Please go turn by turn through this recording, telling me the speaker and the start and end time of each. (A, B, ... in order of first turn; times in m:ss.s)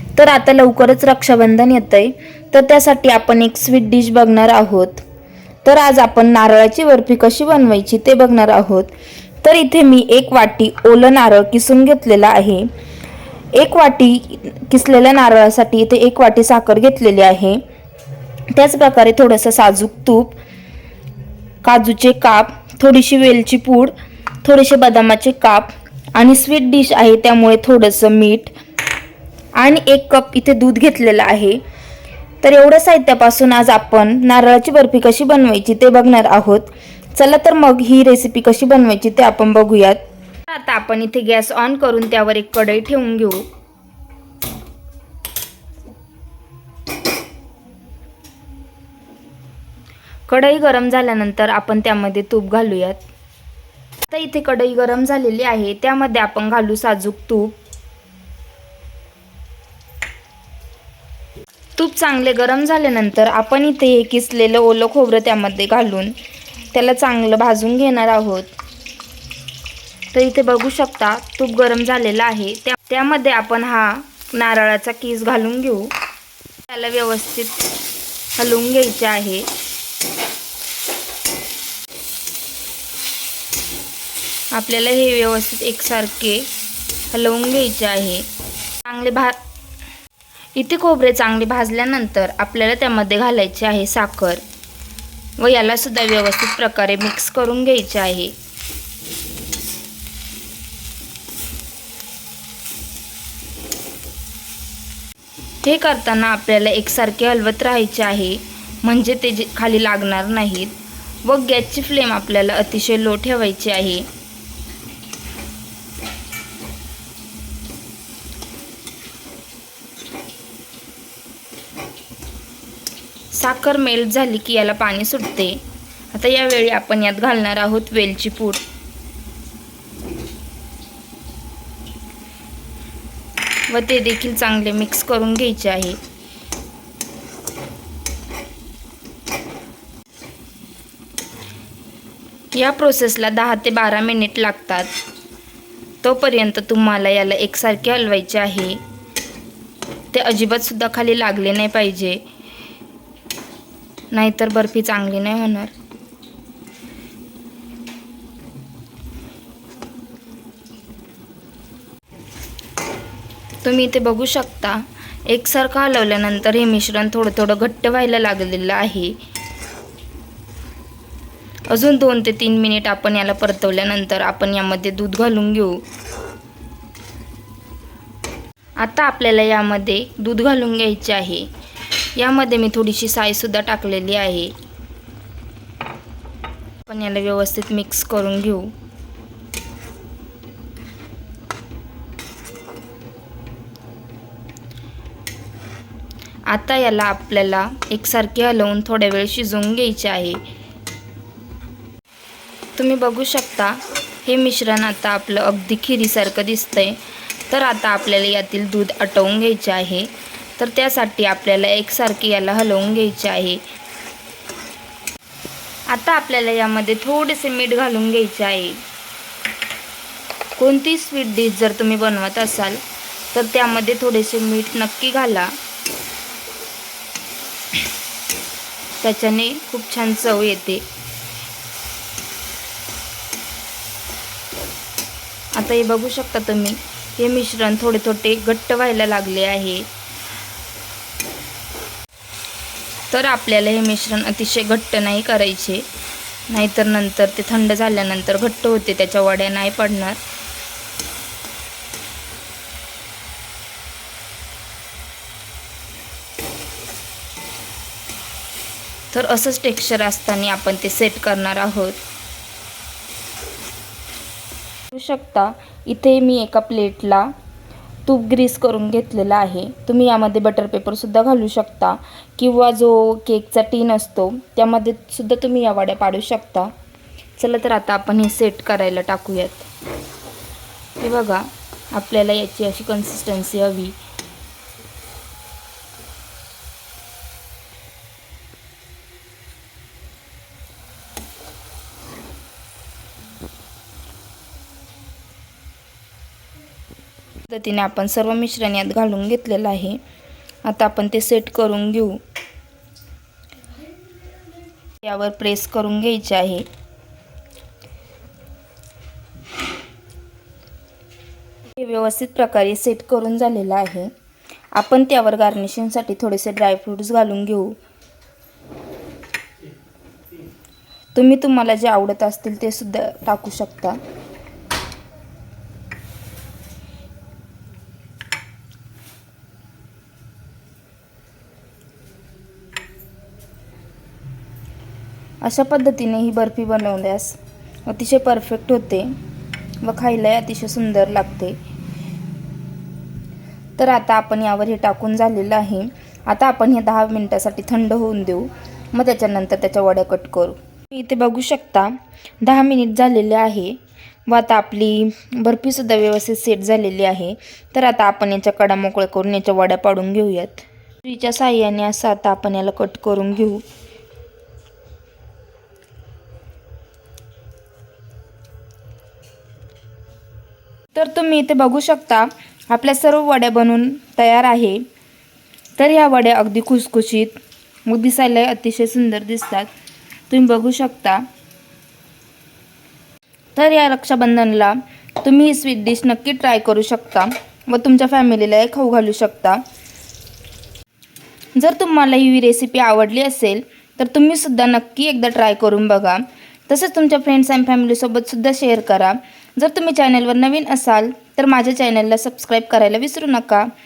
0:00.1-0:05.0 A
0:05.6-0:08.9 A
0:09.4-0:12.7 A
0:13.5-0:17.6 A
0:18.5-0:20.4 A
0:21.6-0:28.5 A
0:29.6-0:31.6 A
0:32.4-0:43.4 A
0:50.3-0:53.0 A
0:54.1-0:57.6 A
1:01.8-1:06.1 A
1:06.7-1:08.5 A
1:10.1-1:15.9 A
1:16.7-1:17.6 A
1:18.4-1:19.5 A
1:24.5-1:26.5 A
1:27.1-1:28.3 A
1:28.8-1:29.4 A
1:30.5-1:34.4 A
1:35.4-1:38.3 A
1:45.6-1:54.1 A
2:03.3-2:08.6 A
2:13.7-2:16.0 A
2:22.5-2:24.9 A
2:26.0-2:28.8 A
2:30.1-2:32.2 A
2:34.1-2:35.7 A
2:43.6-2:49.2 A
2:51.7-2:55.8 A
2:58.8-3:01.5 A
3:02.2-3:04.5 A
3:06.8-3:08.7 A
3:16.5-3:20.4 A
3:22.8-3:33.6 A
3:35.9-3:38.8 A
3:40.6-3:45.5 A
3:49.0-3:50.8 A
3:55.5-3:59.9 A
4:03.1-4:05.8 A
4:06.5-4:10.2 A
4:19.1-4:22.0 A
4:24.9-4:27.3 A
4:28.0-4:36.7 A
4:37.4-4:39.7 A
4:41.0-4:44.0 A
4:57.5-5:00.0 A
5:00.6-5:02.2 A
5:05.0-5:06.6 A
5:11.7-5:14.1 A
5:14.7-5:17.8 A
5:21.1-5:24.0 A
5:35.4-5:39.1 A
5:39.8-5:41.6 A
5:43.8-6:03.6 A
6:10.9-6:14.8 A
6:15.8-6:19.7 A
6:20.3-6:21.2 A
6:23.6-6:29.6 A
6:31.6-6:43.7 A